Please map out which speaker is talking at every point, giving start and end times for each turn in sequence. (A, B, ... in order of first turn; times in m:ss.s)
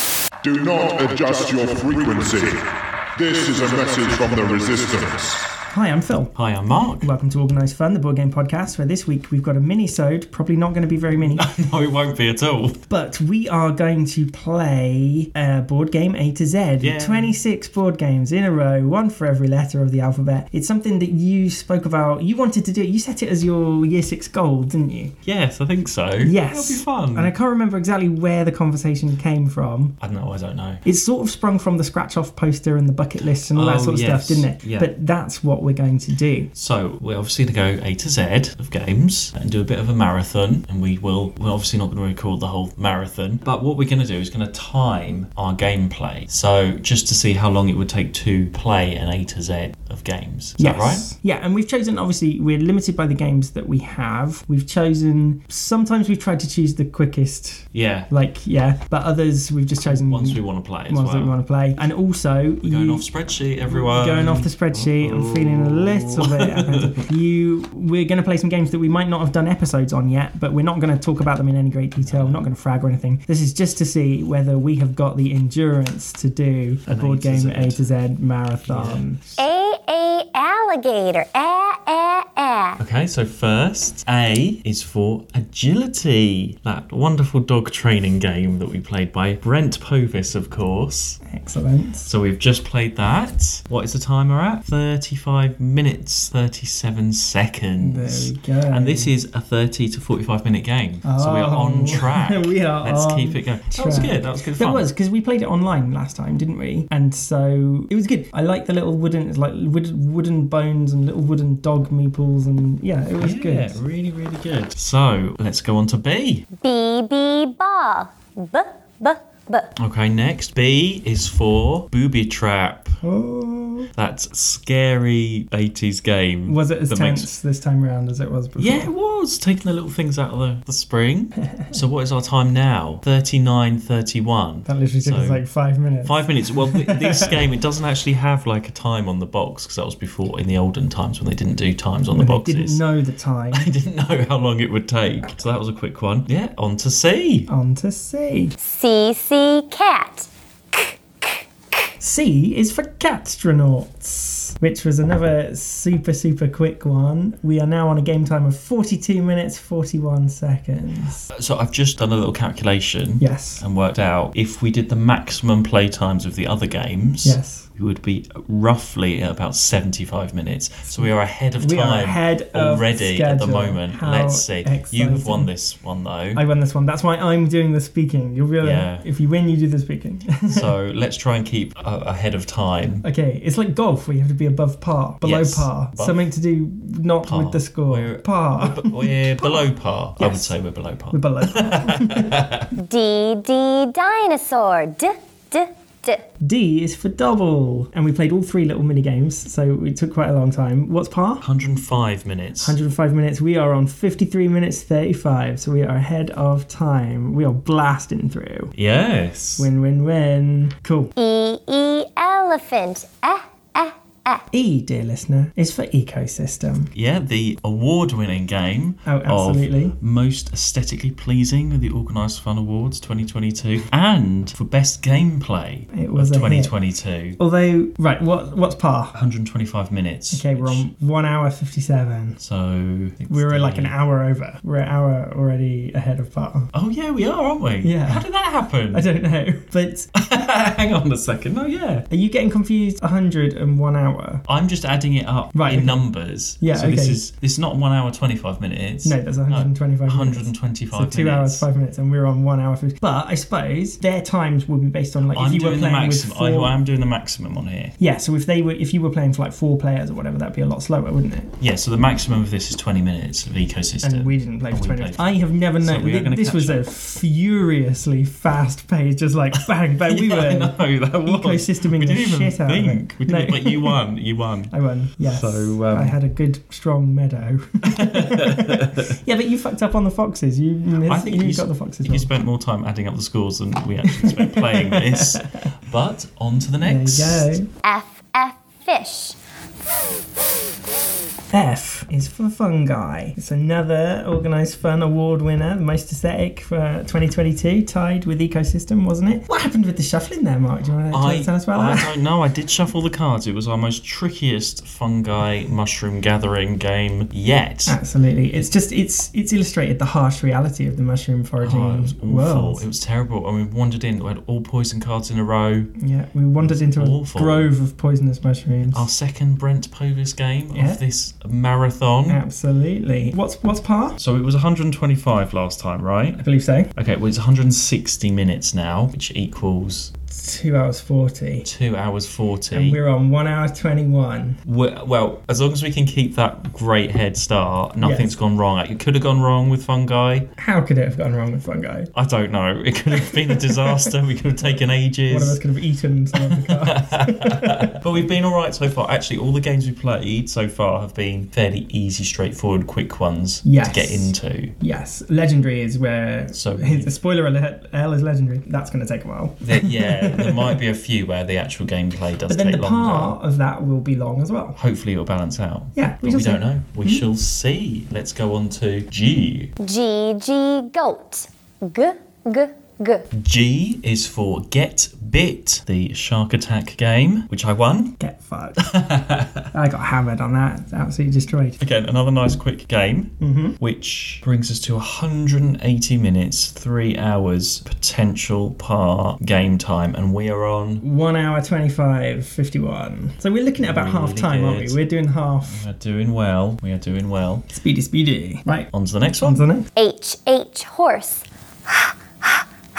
0:00.4-0:05.4 A
0:05.7-0:06.3 B
0:06.3-0:07.1 C
0:07.0-0:11.4 B
0:11.2-0:12.8 C
0:12.9-0:25.2 B
0:16.8-0:17.4 C
0:25.2-0:27.3 C
0:26.2-0:30.0 B
0:30.0-0:30.8 C
0:30.8-0:36.5 B
0:33.2-0:34.9 C
0:36.6-0:51.1 C
0:50.6-1:03.0 B
0:57.7-0:58.1 C
0:59.8-1:01.4 C
1:02.6-1:07.1 C
1:03.7-1:19.2 B
1:12.0-1:12.4 C
1:16.9-1:17.9 C
1:18.7-1:19.1 C
1:19.4-1:22.8 D
1:22.8-1:31.2 C
1:31.3-1:32.1 B
1:32.1-1:44.9 C
1:37.8-1:39.1 B
1:41.0-1:53.8 B
1:53.2-1:56.5 C
1:56.6-1:59.8 D
1:59.8-2:03.0 C
2:03.0-2:03.9 B
2:04.0-2:07.3 C
2:06.5-2:08.9 B
2:08.6-2:15.4 C
2:14.7-2:17.4 B
2:16.0-2:22.8 C
2:22.1-2:23.7 B
2:23.5-2:27.5 C
2:27.5-2:28.5 B
2:28.6-2:31.8 D
2:32.0-2:41.3 B
2:41.3-2:56.4 C
2:43.2-2:43.6 B
2:47.2-2:47.7 B
2:51.6-2:55.5 B
2:56.3-3:00.7 B
2:58.6-2:59.0 C
3:00.5-3:03.1 C
3:03.0-3:09.7 B
3:05.2-3:06.2 C
3:07.2-3:12.7 C
3:10.2-3:10.5 B
3:11.1-3:12.4 B
3:12.8-3:16.3 D
3:16.4-3:21.4 B
3:21.4-3:22.8 C
3:22.6-3:28.7 B
3:28.8-3:29.7 C
3:29.6-3:31.1 B
3:31.2-3:34.4 D
3:34.5-3:36.9 B
3:36.9-3:47.4 C
3:39.0-3:40.0 B
3:45.9-3:46.7 B
3:47.4-3:49.2 B
3:49.1-3:50.8 C
3:50.3-3:52.4 B
3:52.4-3:54.0 C
3:53.3-3:56.7 B
3:56.7-3:59.1 C
3:57.8-3:58.2 B
3:58.9-4:00.1 B
4:00.1-4:02.1 C
4:02.1-4:04.4 B
4:04.5-4:11.6 C
4:05.5-4:06.0 B
4:06.6-4:07.2 B
4:09.0-4:16.7 B
4:15.3-4:17.9 C
4:18.0-4:21.5 B
4:21.6-4:26.8 C
4:24.0-4:34.0 B
4:30.1-4:36.1 C
4:34.7-4:42.3 B
4:37.8-4:39.1 C
4:41.0-4:47.5 C
4:44.1-4:45.7 B
4:46.8-4:47.7 B
4:47.8-4:49.4 D
4:51.5-5:02.1 B
5:01.1-5:08.0 C
5:07.9-5:12.8 B
5:11.6-5:15.9 C
5:16.0-5:19.1 B
5:16.6-5:17.7 C
5:18.9-5:22.4 C
5:20.7-5:21.0 B
5:22.3-5:24.2 B
5:24.2-5:26.4 C
5:26.4-5:26.9 B
5:27.0-5:30.1 C
5:30.3-5:31.7 B
5:31.6-5:33.0 C
5:32.7-5:34.6 B
5:34.7-5:40.5 C
5:38.0-5:38.4 B
5:40.6-5:42.1 B
5:42.1-5:45.6 C
5:43.2-5:44.0 B
5:45.3-5:48.0 B
5:46.3-5:54.7 C
5:53.6-6:00.7 B
5:56.5-5:57.1 C
5:59.6-6:03.4 C
6:02.5-6:04.8 B
6:04.8-6:09.7 C
6:06.0-6:07.3 B
6:09.8-6:13.3 D
6:13.3-6:18.2 C
6:18.2-6:18.8 B
6:18.8-6:19.7 C
6:19.7-6:21.8 B
6:21.8-6:31.0 C
6:23.4-6:23.8 B
6:31.0-6:35.9 B
6:33.8-6:35.0 C
6:35.7-6:37.7 C
6:37.7-6:38.9 B
6:38.9-6:39.6 C
6:39.4-6:39.9 B
6:40.0-6:42.6 D